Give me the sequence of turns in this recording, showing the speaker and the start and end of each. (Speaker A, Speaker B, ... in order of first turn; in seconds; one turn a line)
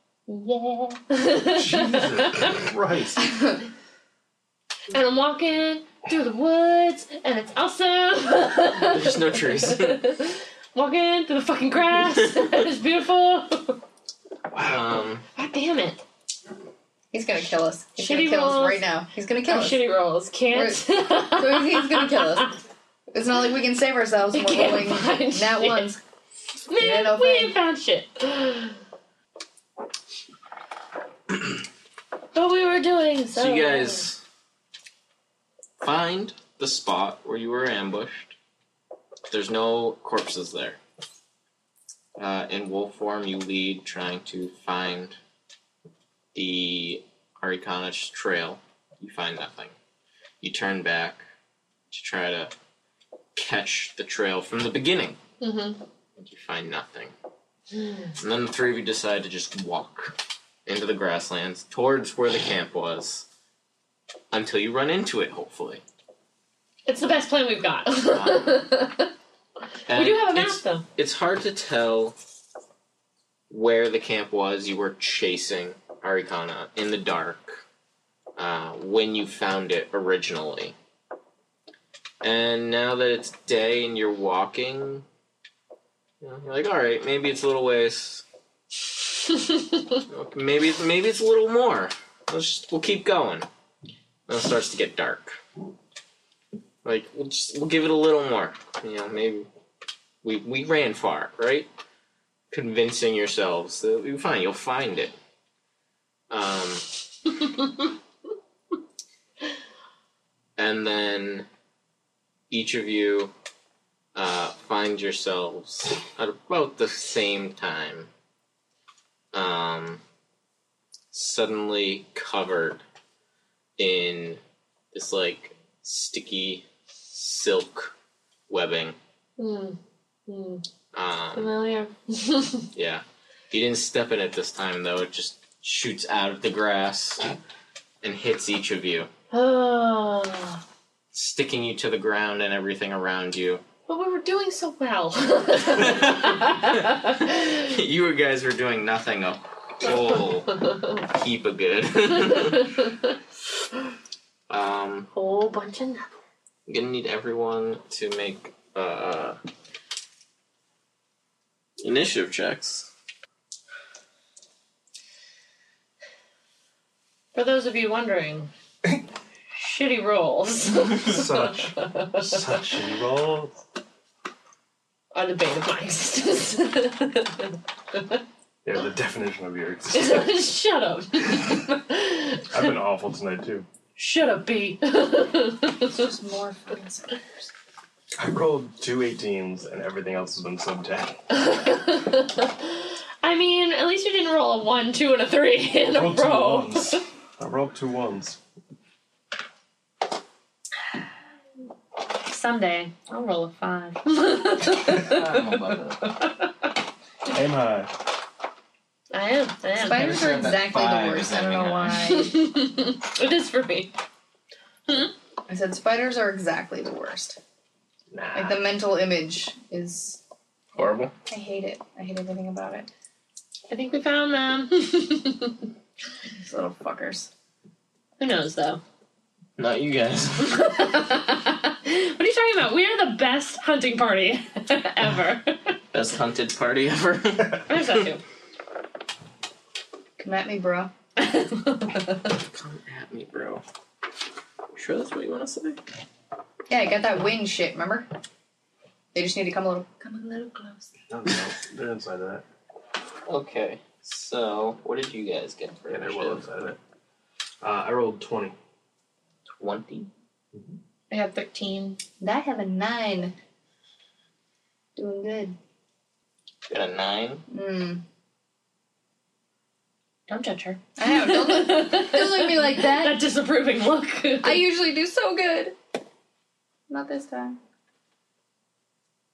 Speaker A: 0.3-2.6
Speaker B: 1.5-3.4
Speaker A: 4.9-13.8
Speaker C: 8.8-10.0
Speaker B: 14.5-15.0
Speaker C: 14.6-15.2
Speaker A: 15.3-16.0
Speaker D: 17.1-19.9
Speaker A: 18.0-18.8
Speaker A: 19.4-22.5
Speaker D: 20.5-22.5
Speaker D: 23.1-26.0
Speaker A: 24.3-25.9
Speaker A: 26.7-28.8
Speaker D: 26.8-27.6
Speaker A: 32.3-34.1
Speaker C: 33.3-34.2
Speaker C: 35.8-38.3
Speaker C: 39.3-40.8
Speaker C: 42.1-45.2
Speaker C: 46.3-49.7
Speaker C: 50.4-51.2
Speaker C: 51.9-52.5
Speaker C: 53.3-55.2
Speaker A: 55.4-55.8
Speaker C: 56.1-57.1
Speaker C: 58.2-63.2
Speaker C: 64.3-65.8
Speaker A: 66.8-69.1
Speaker C: 68.0-68.7
Speaker C: 69.9-72.2
Speaker A: 69.9-70.8
Speaker C: 73.5-77.6
Speaker C: 78.3-80.7
Speaker C: 82.2-85.0
Speaker C: 86.2-88.2
Speaker C: 90.1-93.5
Speaker C: 94.3-95.4
Speaker C: 96.8-99.5
Speaker C: 100.2-101.7
Speaker C: 102.5-105.1
Speaker C: 106.3-106.8
Speaker C: 110.6-111.5
Speaker C: 112.5-113.3
Speaker C: 114.1-118.1
Speaker C: 119.3-120.0
Speaker C: 121.1-122.8
Speaker C: 123.8-124.4
Speaker C: 124.9-127.9
Speaker C: 128.5-128.9
Speaker A: 129.4-130.6
Speaker C: 130.9-131.5
Speaker A: 131.3-132.7
Speaker C: 132.7-137.2
Speaker C: 138.0-139.1
Speaker A: 139.3-140.6
Speaker C: 141.1-143.6
Speaker A: 143.9-147.3
Speaker C: 145.7-152.7
Speaker A: 150.6-150.9
Speaker A: 152.3-153.1
Speaker C: 154.5-155.1
Speaker A: 155.1-156.1
Speaker C: 156.7-159.4
Speaker C: 161.8-162.9
Speaker A: 167.3-168.5
Speaker A: 169.5-172.4
Speaker B: 171.0-173.6
Speaker A: 175.1-178.2
Speaker B: 178.6-180.4
Speaker A: 179.9-182.6
Speaker B: 182.5-183.7
Speaker A: 183.9-185.9
Speaker D: 185.9-187.5
Speaker B: 188.2-191.2
Speaker A: 191.3-197.0
Speaker B: 195.9-198.4
Speaker A: 202.2-206.5
Speaker C: 204.8-205.9
Speaker B: 207.3-207.9
Speaker A: 209.1-210.4
Speaker D: 209.7-212.4
Speaker C: 209.9-212.1
Speaker A: 211.9-213.9
Speaker D: 215.5-217.4
Speaker C: 218.1-218.6
Speaker D: 218.3-220.2
Speaker C: 220.7-221.1
Speaker D: 221.3-222.9
Speaker A: 223.7-225.7
Speaker D: 226.4-227.3
Speaker A: 228.2-228.8
Speaker C: 229.6-230.7
Speaker A: 230.4-235.8
Speaker C: 235.9-238.0
Speaker A: 237.7-238.2
Speaker D: 240.2-240.9
Speaker A: 241.2-242.3
Speaker C: 242.5-243.6
Speaker C: 244.7-245.8
Speaker D: 246.7-248.1
Speaker D: 249.1-250.9
Speaker B: 251.1-252.4
Speaker C: 253.3-256.4
Speaker B: 255.9-256.8
Speaker B: 257.6-258.6
Speaker C: 259.6-260.1
Speaker B: 260.5-260.8
Speaker A: 261.1-262.0
Speaker D: 262.2-263.3
Speaker D: 264.9-265.6
Speaker C: 266.7-267.4
Speaker D: 267.5-268.0
Speaker A: 270.3-274.6
Speaker D: 271.0-273.2
Speaker D: 274.4-275.7
Speaker D: 276.9-277.6